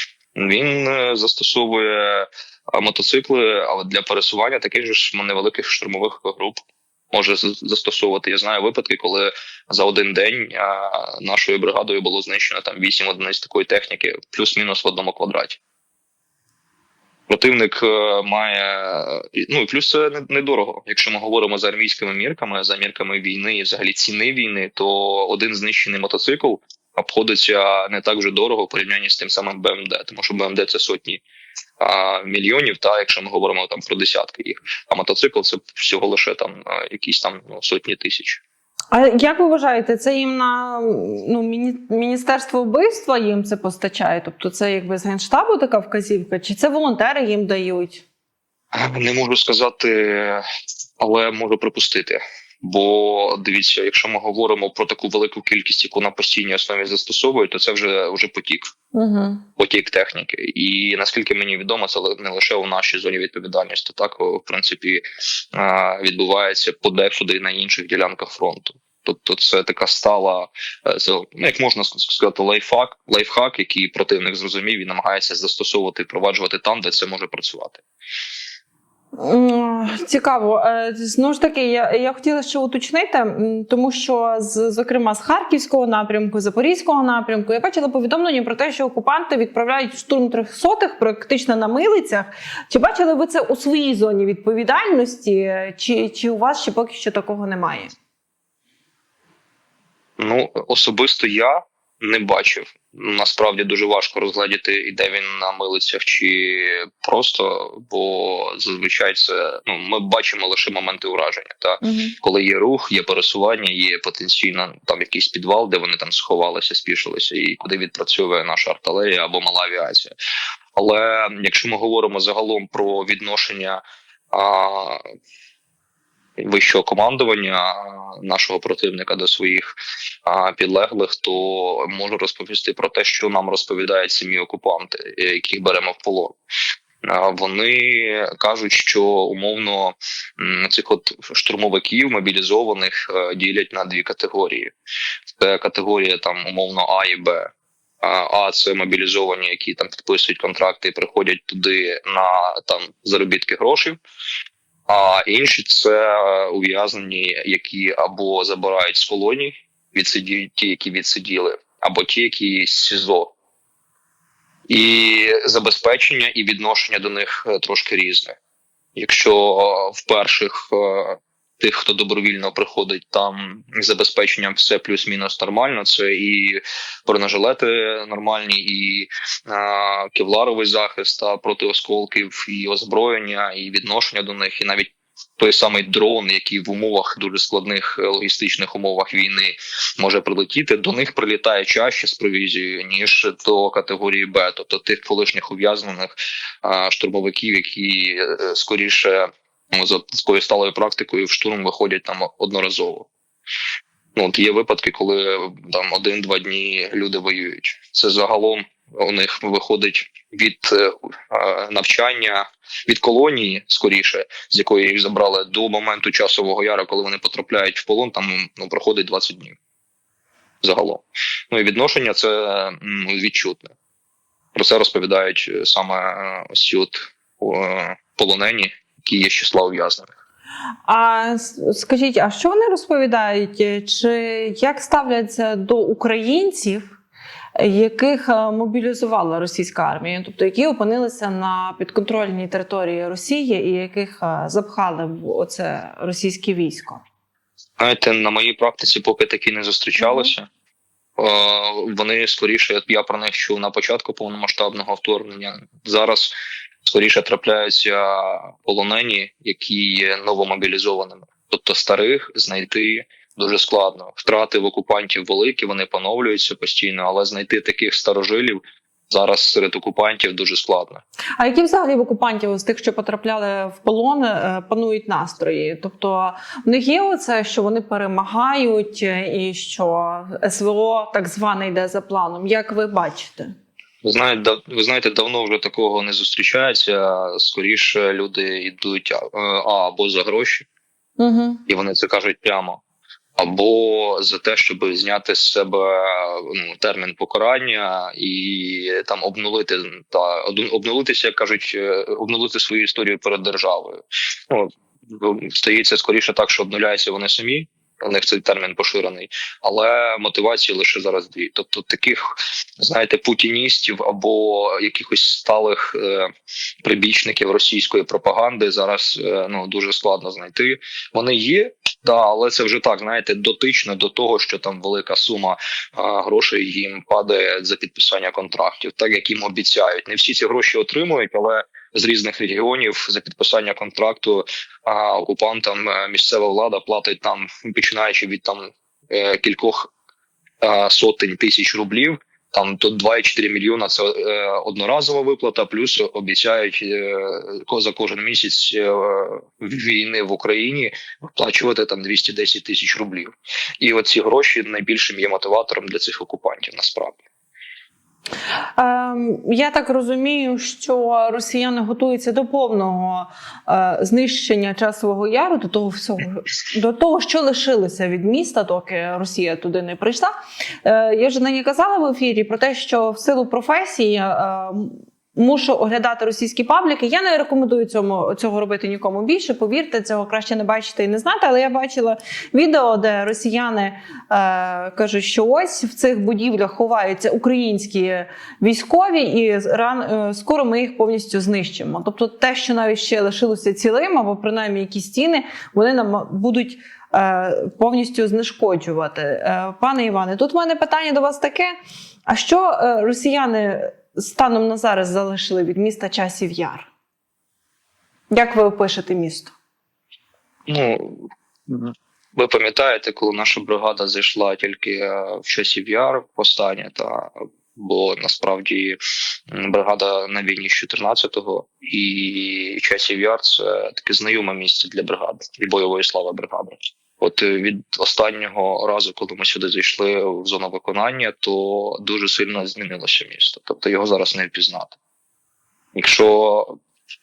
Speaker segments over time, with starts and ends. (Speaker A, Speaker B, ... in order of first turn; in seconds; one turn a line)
Speaker A: 0.3-15.6
Speaker A: 17.3-31.2
Speaker A: 31.8-38.4
Speaker B: 38.9-48.0
Speaker A: 48.7-50.4
Speaker A: 51.0-58.6
Speaker B: 58.9-59.4
Speaker A: 59.6-65.0
Speaker A: 65.5-77.8
Speaker B: 79.1-97.9
Speaker A: 100.2-120.1
Speaker B: 111.8-112.1
Speaker A: 120.8-125.0
Speaker A: 126.4-129.7
Speaker A: 130.2-136.3
Speaker A: 137.0-144.7
Speaker A: 145.4-154.0
Speaker A: 154.9-163.3
Speaker A: 164.7-168.4
Speaker A: 168.9-196.1
Speaker A: 196.6-203.1
Speaker A: 204.2-219.6
Speaker A: 220.6-223.7
Speaker A: 224.5-230.1
Speaker B: 230.8-236.9
Speaker B: 237.6-247.0
Speaker A: 247.8-250.5
Speaker B: 250.0-250.3
Speaker A: 251.2-271.0
Speaker B: 271.4-283.5
Speaker A: 284.0-290.6
Speaker B: 291.2-291.6
Speaker A: 291.7-292.8
Speaker A: 293.4-316.3
Speaker A: 316.8-339.9
Speaker A: 340.6-357.2
Speaker B: 358.8-401.7
Speaker B: 402.3-406.9
Speaker B: 408.3-409.5
Speaker A: 410.7-419.0
Speaker A: 419.5-434.9
Speaker A: 435.9-436.7